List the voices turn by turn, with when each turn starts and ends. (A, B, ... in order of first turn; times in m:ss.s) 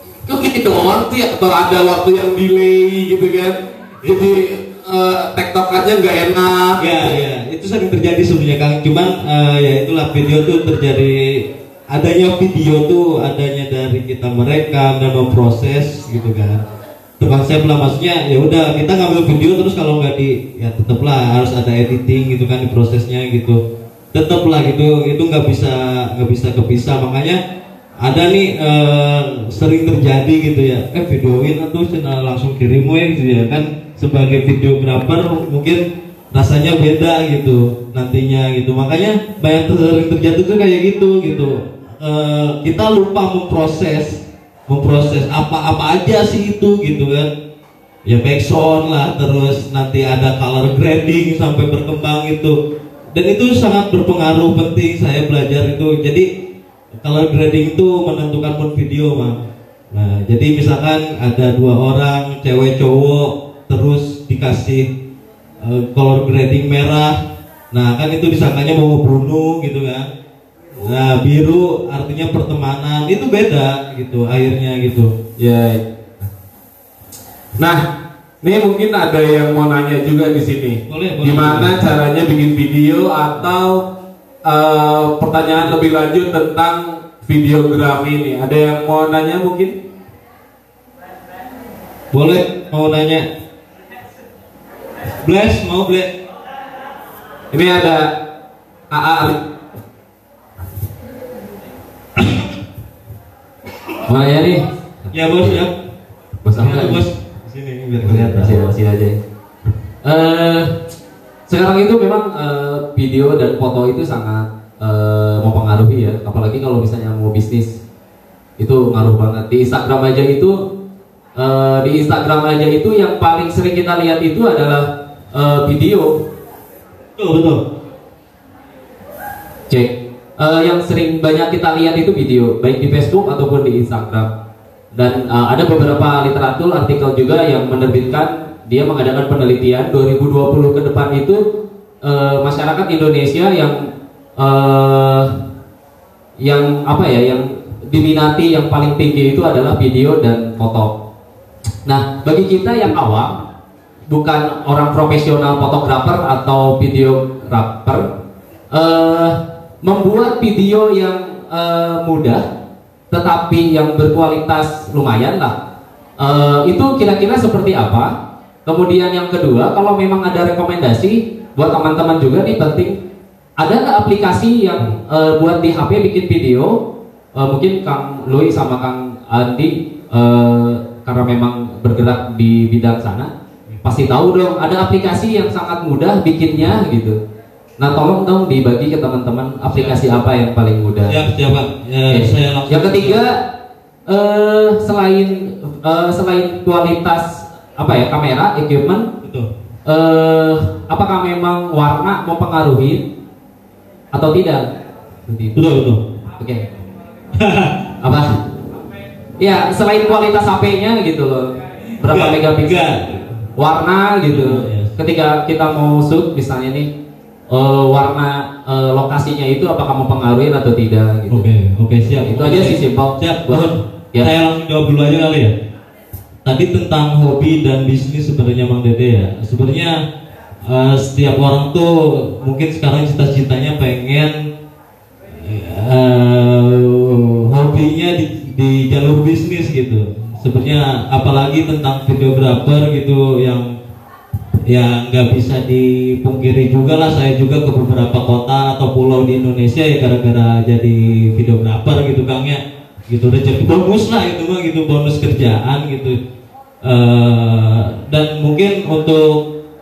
0:00.2-0:07.1 A
0:06.8-0:16.6 B
0:17.2-0:23.6 B
0:24.1-0:27.4 B
0:28.0-0:47.3 B
0:48.0-0:52.6 B
0:53.1-0:56.2 B
0:57.0-0:59.4 B
0:59.9-1:04.8 B
1:05.6-1:07.2 B
1:07.7-1:10.1 B
1:10.8-1:15.1 B
1:15.4-1:16.3 A
1:17.6-1:17.8 A
1:18.4-1:23.8 A
1:20.9-1:21.8 B
1:24.4-1:29.7 A
1:32.1-1:33.3 B
1:35.2-1:36.1 B
1:37.5-1:38.1 A
1:38.9-1:39.4 A
1:42.2-1:42.4 B
1:44.0-1:45.6 C
1:45.1-1:45.7 B
1:46.4-1:47.0 C
1:46.6-1:48.6 B
1:48.0-1:49.2 C
1:50.0-1:50.7 C
1:51.5-1:57.8 C
1:58.6-2:00.6 C
2:01.4-2:06.2 C
2:07.2-2:07.6 B
2:09.7-2:14.3 C
2:14.9-2:21.4 C
2:22.0-2:23.8 C
2:24.4-2:25.3 C
2:26.4-2:30.9 C
2:31.8-2:33.4 C
2:34.1-2:38.1 C
2:38.7-2:42.4 C
2:43.1-2:45.5 C
2:46.2-2:48.1 C
2:48.6-2:52.9 C
2:53.6-2:56.7 C
2:57.3-3:03.3 C
3:03.8-3:07.2 C
3:07.8-3:11.2 C
3:09.7-3:10.0 B
3:11.0-3:13.2 B
3:12.1-3:13.4 C
3:14.1-3:19.1 C
3:19.2-3:19.5 B
3:19.8-3:23.0 C
3:24.1-3:24.6 C
3:25.3-3:25.7 C
3:25.5-3:26.0 B
3:26.4-3:26.7 C
3:27.4-3:27.7 B
3:28.0-3:28.4 C
3:29.4-3:32.9 C
3:32.0-3:33.3 B
3:33.6-3:36.9 C
3:34.2-3:34.9 B
3:37.5-3:41.4 C
3:41.3-3:45.5 B
3:42.0-3:44.3 C
3:46.4-3:50.0 B
3:50.6-3:54.4 B
3:55.4-4:03.7 B
4:04.7-4:16.2 B
4:16.8-4:19.4 B